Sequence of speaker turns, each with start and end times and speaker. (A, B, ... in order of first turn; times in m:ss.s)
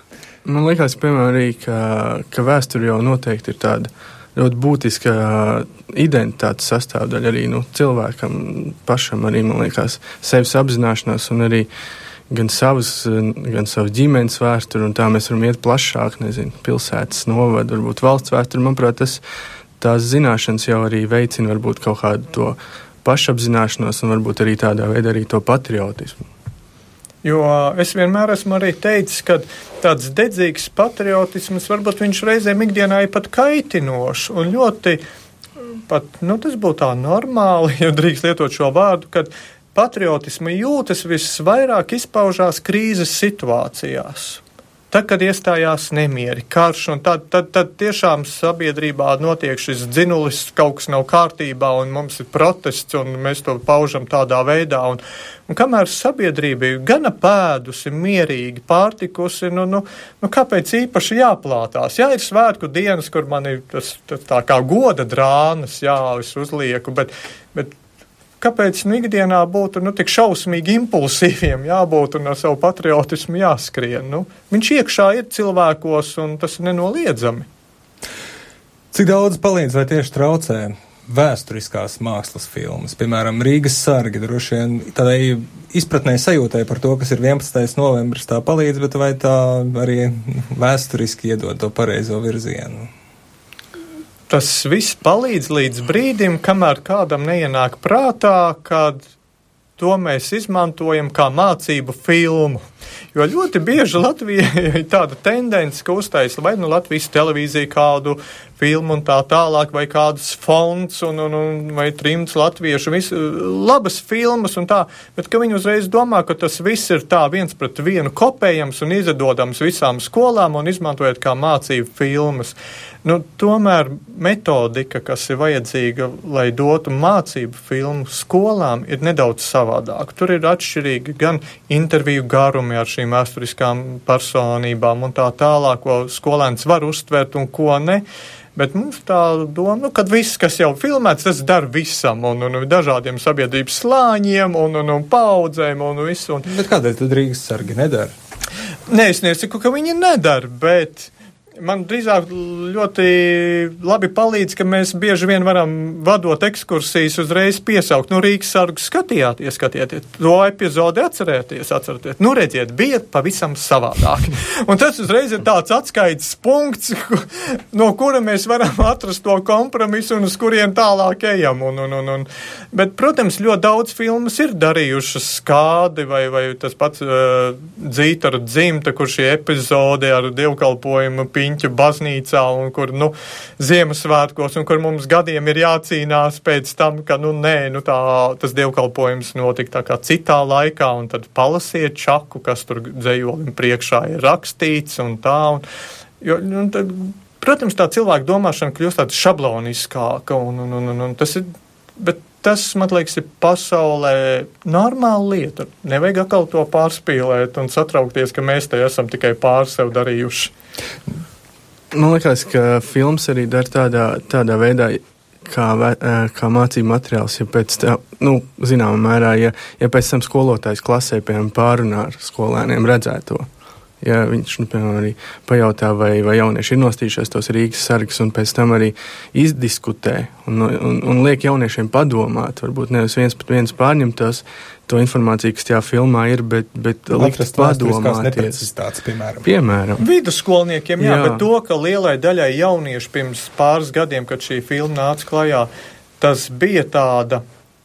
0:00.4-0:11.7 A
0:12.3-0:19.2 A
0:19.8-0:26.3 A
0:27.2-0:35.0 B
0:35.9-1:07.7 B
1:08.4-1:17.5 B
1:18.9-1:32.9 C
1:34.3-1:39.0 B
1:39.8-1:42.6 B
1:43.1-2:18.0 B
2:18.6-2:26.5 B
2:26.4-2:28.1 C
2:28.9-3:15.6 B
3:16.2-3:30.5 B
3:31.9-3:43.5 A
3:44.0-3:58.7 A
3:57.2-3:59.5 C
3:59.4-4:00.0 A
4:00.0-4:05.7 B
4:01.0-4:01.4 A
4:06.2-4:07.4 B